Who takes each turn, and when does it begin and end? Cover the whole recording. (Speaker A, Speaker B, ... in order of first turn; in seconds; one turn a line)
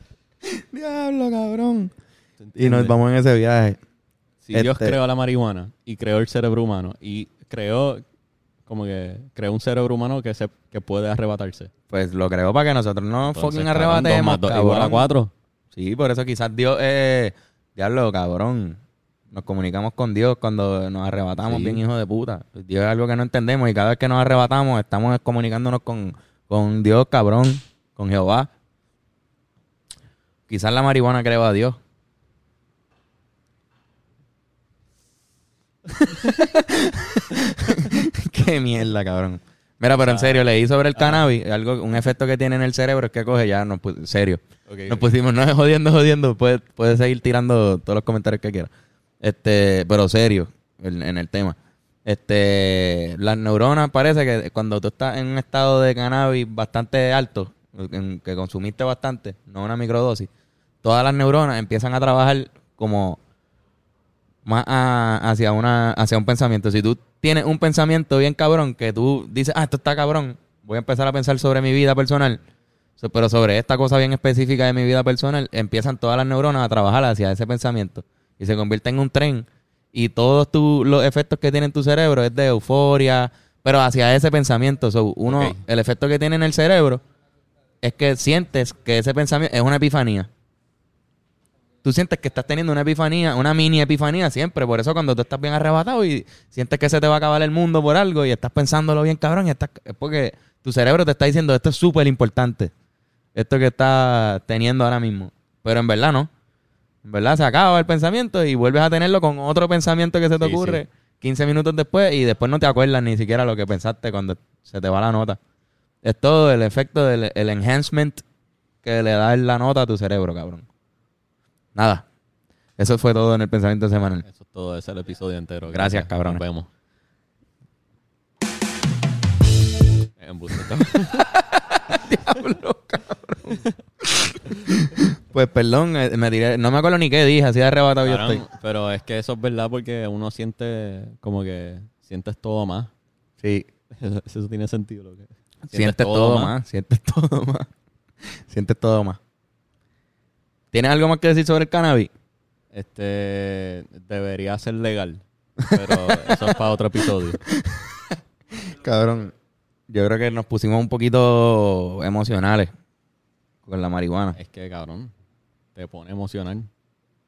Speaker A: 0.5-1.9
Speaker B: 2.4-3.0
Speaker A: 2.6-3.8
Speaker B: 4.5-8.0
Speaker A: 4.5-5.0
Speaker B: 8.7-11.7
Speaker A: 11.9-15.1
Speaker B: 13.3-15.3
Speaker A: 15.7-18.8
Speaker A: 19.3-28.5
Speaker B: 21.4-21.8
Speaker A: 30.5-31.8
Speaker A: 36.0-48.7
Speaker B: 40.0-40.4
Speaker B: 41.0-41.2
Speaker B: 44.7-45.1
Speaker A: 49.2-60.3
Speaker A: 60.8-63.2
Speaker A: 64.5-72.4
Speaker A: 73.0-87.0
Speaker B: 85.2-85.6
Speaker A: 87.8-90.3
Speaker A: 91.8-102.7
Speaker A: 103.3-106.3
Speaker A: 107.0-115.4
Speaker B: 110.4-110.8
Speaker A: 116.0-118.2
Speaker A: 118.8-120.7
Speaker A: 121.8-122.0
Speaker A: 122.8-124.2
Speaker B: 124.3-126.7
Speaker A: 125.7-126.4
Speaker B: 130.2-131.3
Speaker A: 131.2-138.4
Speaker B: 138.1-142.9
Speaker A: 143.4-143.7
Speaker B: 143.9-146.6
Speaker A: 145.7-147.7
Speaker A: 148.4-149.2
Speaker A: 150.7-152.1
Speaker B: 152.7-157.4
Speaker A: 155.6-156.6
Speaker A: 157.4-159.3
Speaker A: 159.9-162.7
Speaker A: 163.7-164.4
Speaker B: 164.3-165.1
Speaker B: 165.8-166.7